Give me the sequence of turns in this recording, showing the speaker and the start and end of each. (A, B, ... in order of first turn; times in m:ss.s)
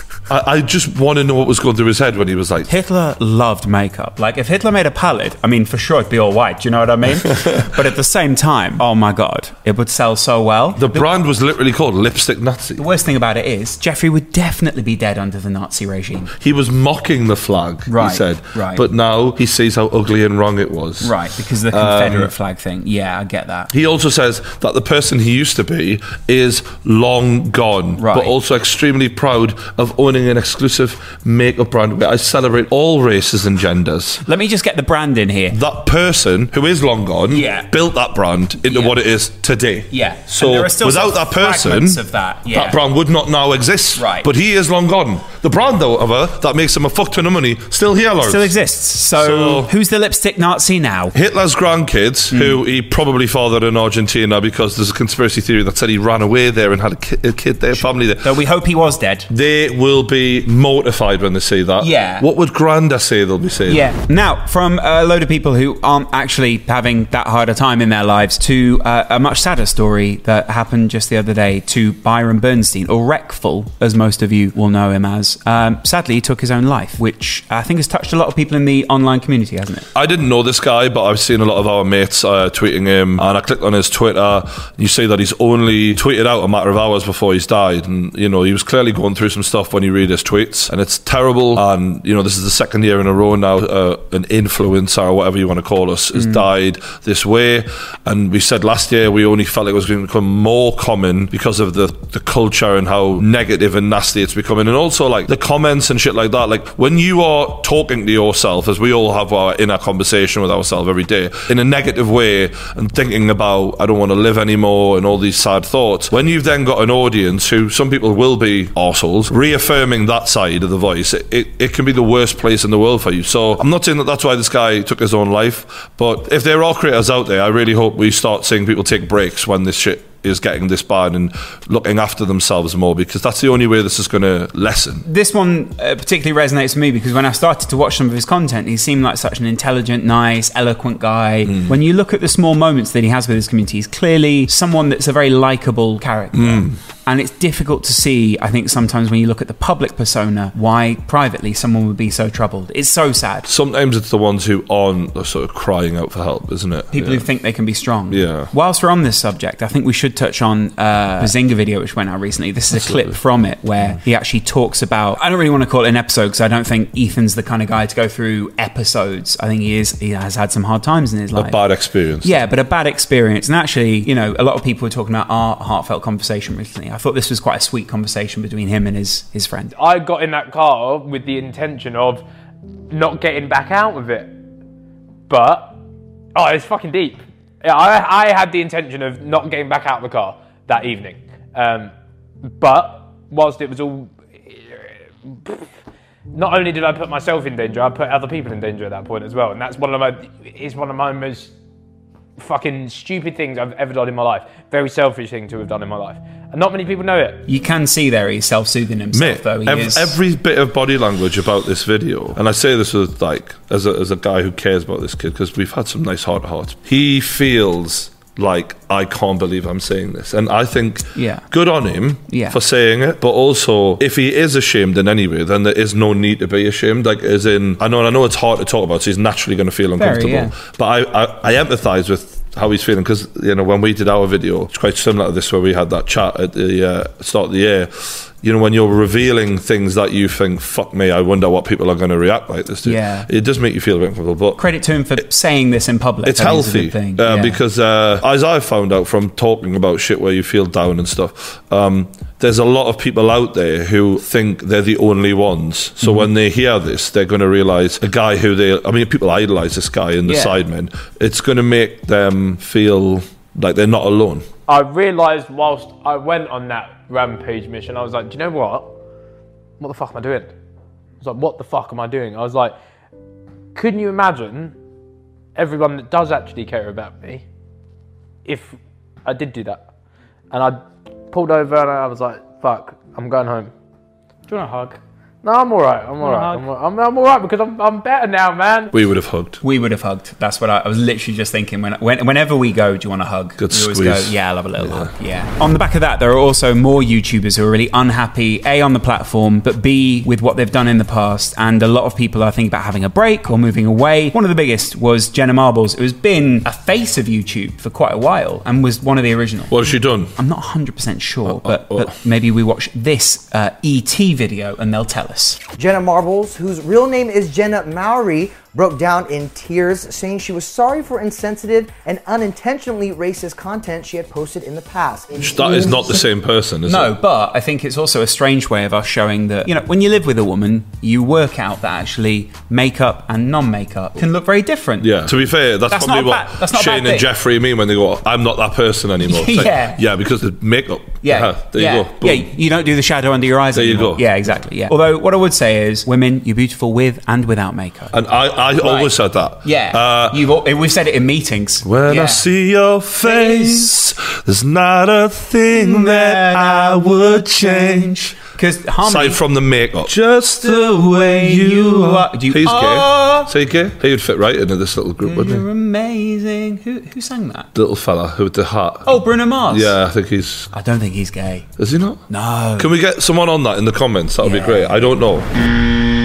0:00.3-0:02.7 A
0:02.7-0:11.1 B
0:10.8-0:12.8 A
0:12.8-0:16.3 B
0:16.4-0:21.2 A
0:17.9-0:18.8 B
0:21.0-0:23.7 B
0:21.7-0:22.3 A
0:23.7-0:34.2 A
0:28.0-0:28.3 B
0:34.3-0:35.6 B
0:35.5-0:48.5 A
0:37.3-0:37.7 B
0:38.6-0:39.0 B
0:39.9-0:42.8 B
0:44.0-0:44.3 B
0:48.2-0:51.1 B
0:49.2-0:49.7 A
0:51.1-0:58.3 A
0:52.3-0:52.6 B
0:57.7-0:59.3 B
0:59.3-1:03.9 A
1:01.8-1:02.3 B
1:03.7-1:19.9 B
1:19.9-2:15.1 A
1:36.2-1:36.4 B
2:15.1-2:33.5 B
2:21.5-2:21.7 A
2:26.3-2:26.8 A
2:33.4-2:37.3 A
2:36.9-2:51.6 B
2:38.1-2:38.5 A
2:42.7-2:43.2 A
2:51.4-2:52.4 A
2:52.2-2:59.8 B
2:59.8-3:02.2 C
3:02.9-3:04.4 C
3:05.3-3:05.8 C
3:06.4-3:11.9 C
3:12.5-3:15.6 C
3:16.3-3:21.5 C
3:22.4-3:27.4 C
3:27.5-3:30.2 B
3:29.1-4:04.6 A
3:41.2-3:41.4 B
3:42.3-3:42.6 B
3:50.0-3:50.6 B
4:02.8-4:03.3 B
4:04.6-4:07.6 B
4:06.2-4:24.5 A
4:20.3-4:20.6 B
4:24.7-4:28.9 C
4:29.8-4:30.5 C
4:31.2-4:32.8 C
4:33.8-4:34.8 C
4:35.6-4:37.4 C
4:38.4-4:39.8 C
4:40.5-4:43.7 C
4:44.5-4:44.9 B
4:45.4-4:48.9 C
4:46.2-4:46.6 B
4:48.9-4:49.6 A
4:49.6-5:15.6 B
4:53.6-4:55.1 A
5:09.7-5:10.3 A
5:11.5-5:12.2 A
5:15.8-5:26.0 D
5:25.4-5:27.1 A
5:26.9-5:35.2 B
5:35.0-5:42.5 A
5:35.9-5:37.3 B
5:39.2-5:40.0 B
5:41.2-5:48.1 B
5:43.7-5:44.2 A
5:48.1-5:50.4 A
5:48.8-5:52.4 B
5:51.8-5:58.3 A
5:53.2-5:53.9 B
5:55.7-5:59.4 B
5:59.0-6:05.6 A
6:00.6-6:03.5 B
6:05.2-6:07.7 B
6:07.8-6:10.7 A
6:09.1-6:10.0 B
6:10.7-6:11.7 B
6:11.8-6:12.2 A
6:12.3-6:12.9 B
6:12.8-6:15.5 A
6:14.4-6:15.0 B